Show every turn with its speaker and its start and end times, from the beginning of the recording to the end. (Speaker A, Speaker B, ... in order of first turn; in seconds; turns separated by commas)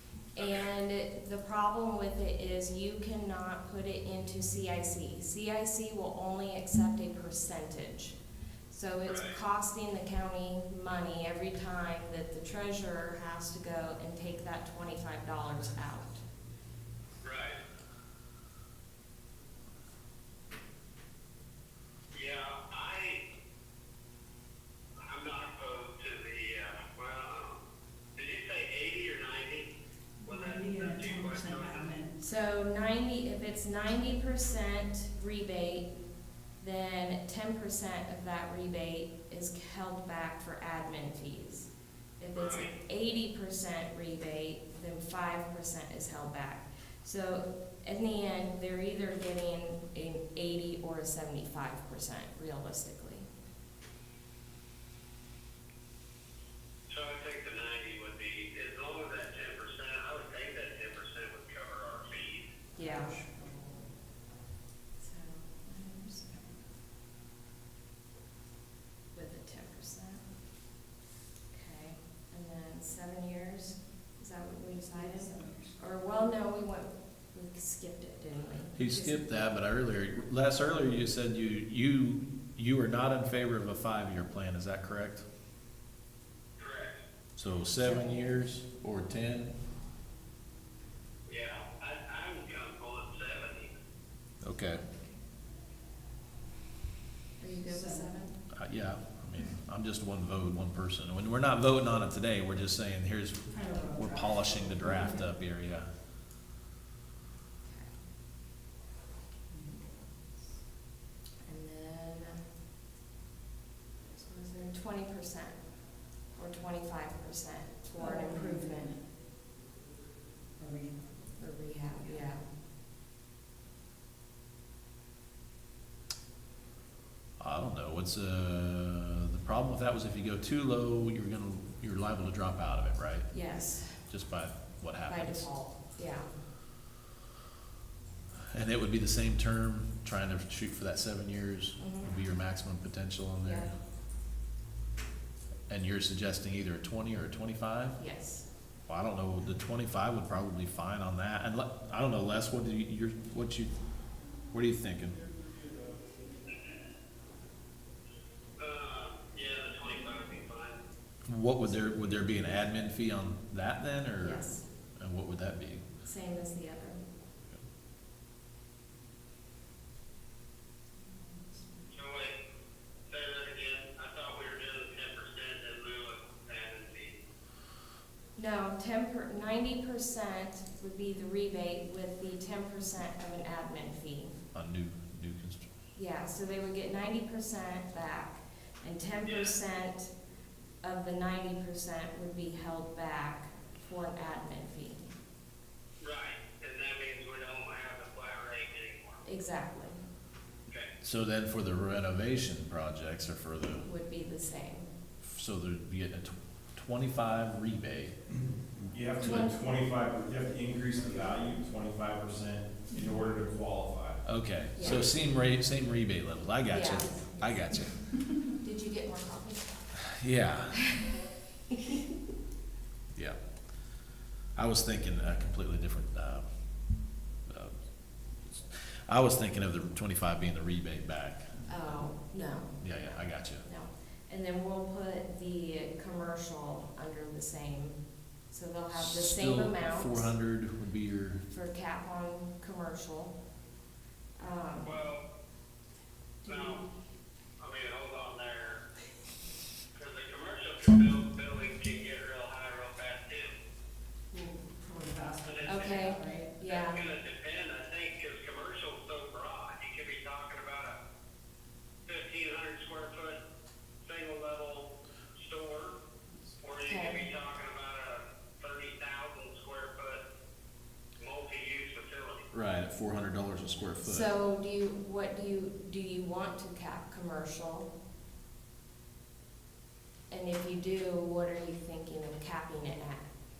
Speaker A: 0.3-8.2, Speaker B: 0.4-0.7, Speaker A: 8.7-16.2, Speaker B: 9.1-9.4, Speaker B: 17.2-17.6, Speaker B: 22.1-23.2, Speaker B: 25.0-27.6, Speaker B: 28.1-29.7, Speaker C: 30.2-32.2, Speaker B: 30.2-32.0, Speaker A: 32.2-35.9, Speaker A: 36.6-41.7, Speaker A: 42.2-53.3, Speaker B: 42.4-42.7, Speaker B: 56.9-62.5, Speaker A: 62.8-63.2, Speaker A: 65.0-66.5, Speaker A: 69.1-70.2, Speaker A: 71.5-79.2, Speaker C: 74.9-75.8, Speaker D: 78.8-85.2, Speaker B: 86.6-87.0, Speaker D: 87.3-89.5, Speaker B: 91.3-93.7, Speaker D: 94.4-94.8, Speaker A: 94.8-95.2, Speaker A: 97.4-98.3, Speaker C: 97.5-98.1, Speaker D: 98.5-105.9, Speaker C: 103.5-105.2, Speaker A: 107.6-107.9, Speaker C: 109.5-109.9, Speaker A: 111.5-112.4, Speaker A: 114.1-115.6, Speaker A: 116.3-118.9, Speaker C: 118.0-119.0, Speaker C: 120.6-121.1, Speaker A: 121.4-122.4, Speaker C: 121.9-122.2, Speaker D: 127.4-133.3, Speaker A: 133.3-134.0, Speaker D: 134.1-135.5, Speaker A: 135.1-136.3, Speaker D: 138.5-143.7, Speaker A: 141.8-142.1, Speaker A: 143.4-143.7, Speaker D: 145.7-148.0, Speaker A: 148.0-148.4, Speaker D: 148.9-153.7, Speaker D: 154.5-155.2, Speaker B: 158.6-160.8, Speaker D: 161.3-164.4, Speaker A: 164.2-164.6, Speaker D: 165.0-165.8, Speaker A: 166.0-167.0, Speaker B: 171.9-172.4, Speaker B: 173.1-177.2, Speaker A: 178.3-184.3, Speaker D: 184.5-185.7, Speaker A: 185.9-190.1, Speaker B: 189.2-189.6, Speaker A: 190.8-195.1, Speaker B: 196.0-199.2, Speaker A: 199.2-200.0, Speaker D: 201.0-203.8, Speaker A: 203.8-204.9, Speaker D: 205.2-208.1, Speaker E: 208.9-214.2, Speaker A: 209.2-209.5, Speaker D: 214.2-218.0, Speaker A: 214.7-215.1, Speaker A: 216.7-217.5, Speaker A: 218.6-219.7, Speaker D: 220.1-220.9, Speaker D: 224.6-226.4, Speaker D: 227.5-227.8, Speaker D: 228.5-231.5, Speaker A: 231.7-238.0, Speaker D: 232.8-233.6, Speaker A: 238.5-240.3, Speaker D: 238.9-241.4, Speaker A: 241.5-243.3, Speaker A: 244.4-244.9, Speaker B: 244.8-245.2, Speaker B: 246.4-246.8, Speaker B: 247.6-248.8, Speaker B: 249.9-253.6, Speaker C: 254.3-256.5, Speaker B: 255.4-256.1, Speaker A: 255.7-257.0, Speaker B: 256.6-261.0, Speaker B: 262.0-263.4, Speaker B: 264.0-265.9, Speaker B: 266.6-270.2, Speaker A: 266.9-267.2, Speaker B: 271.2-272.4, Speaker D: 272.5-274.3, Speaker A: 274.0-277.9, Speaker A: 280.3-283.3